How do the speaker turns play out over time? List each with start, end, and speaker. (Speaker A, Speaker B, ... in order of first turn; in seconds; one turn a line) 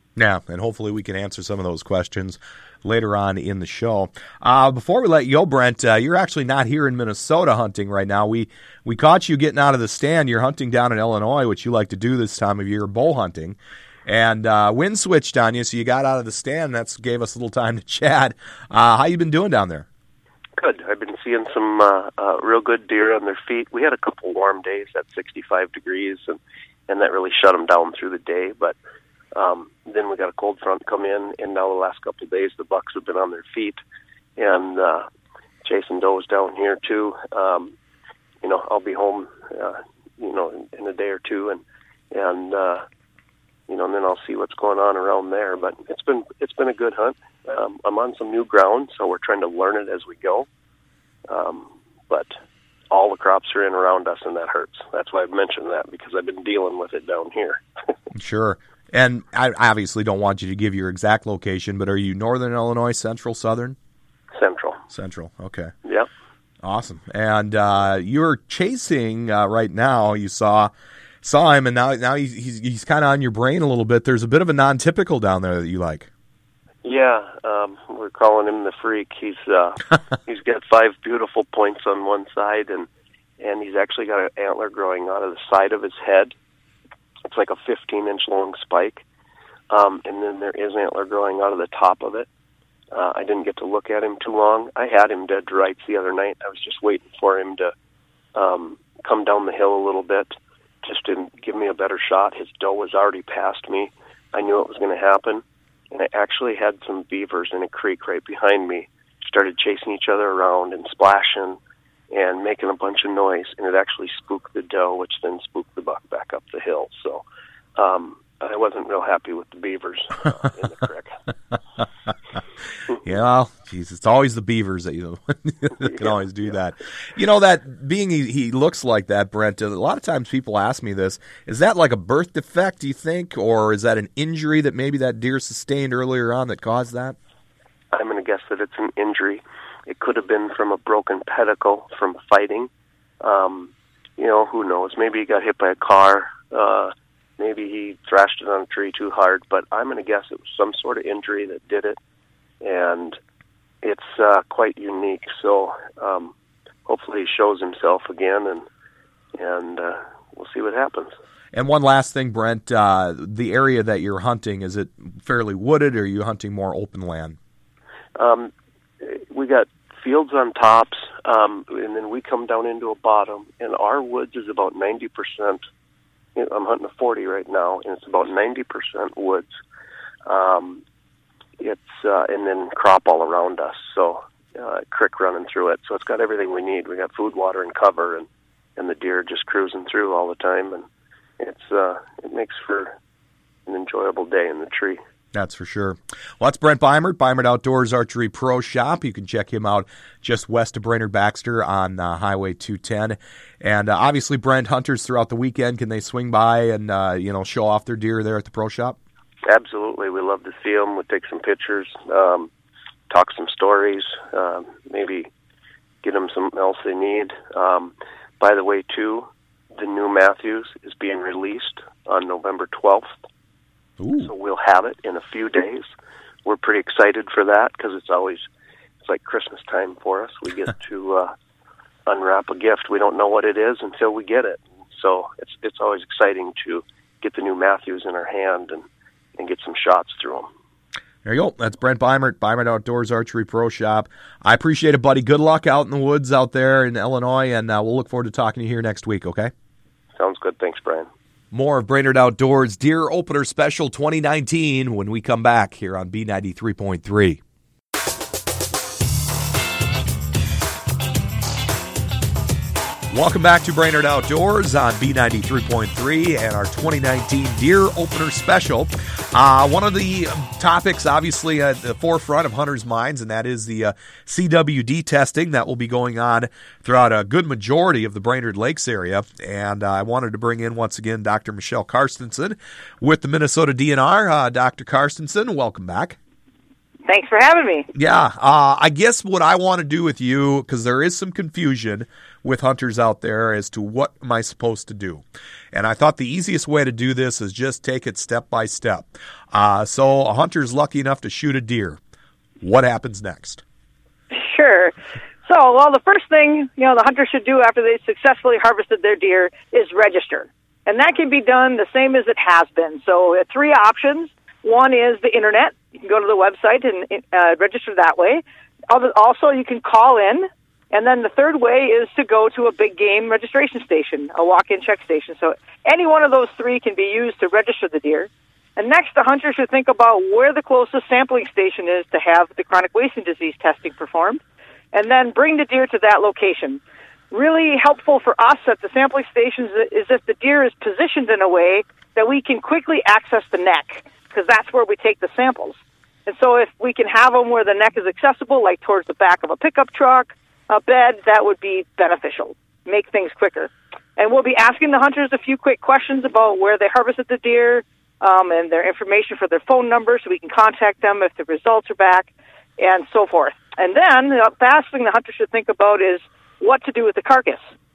Speaker A: 0.2-19.9
Speaker B: 20.6-28.8
Speaker B: 29.3-33.8
Speaker B: 34.4-35.0
Speaker B: 35.6-37.7
Speaker B: 38.4-42.8
Speaker B: 43.7-50.5
Speaker B: 51.3-52.3
Speaker B: 52.9-57.6
Speaker A: 58.1-63.8
Speaker B: 64.3-64.8
Speaker A: 64.9-65.7
Speaker A: 66.6-70.7
Speaker A: 71.2-76.1
Speaker B: 76.8-82.9
Speaker B: 83.4-86.3
Speaker B: 87.3-89.0
Speaker B: 89.7-92.3
Speaker B: 92.9-97.7
Speaker B: 98.3-111.6
Speaker B: 112.1-117.2
Speaker B: 117.8-121.2
Speaker A: 123.0-137.2
Speaker B: 137.9-142.7
Speaker B: 143.2-152.0
Speaker B: 152.6-153.2
Speaker B: 153.8-156.3
Speaker B: 156.9-158.7
Speaker B: 159.3-161.1
Speaker A: 161.5-167.4
Speaker B: 168.2-175.6
Speaker B: 176.4-179.5
Speaker B: 180.3-180.8
Speaker B: 181.6-190.8
Speaker B: 191.4-192.9
Speaker B: 193.7-195.0
Speaker A: 195.3-209.0
Speaker B: 209.5-212.5
Speaker B: 213.1-215.3
Speaker B: 216.0-223.1
Speaker A: 224.0-224.3
Speaker B: 224.2-225.9
Speaker B: 226.4-228.4
Speaker B: 229.0-231.3
Speaker B: 232.1-238.8
Speaker B: 239.4-240.5
Speaker A: 241.2-249.5
Speaker B: 250.2-251.1
Speaker A: 251.5-257.4
Speaker A: 263.1-286.2
Speaker C: 287.1-287.9
Speaker A: 287.9-302.0
Speaker A: 302.6-303.6
Speaker C: 304.3-304.9
Speaker C: 305.4-334.4
Speaker C: 334.9-367.6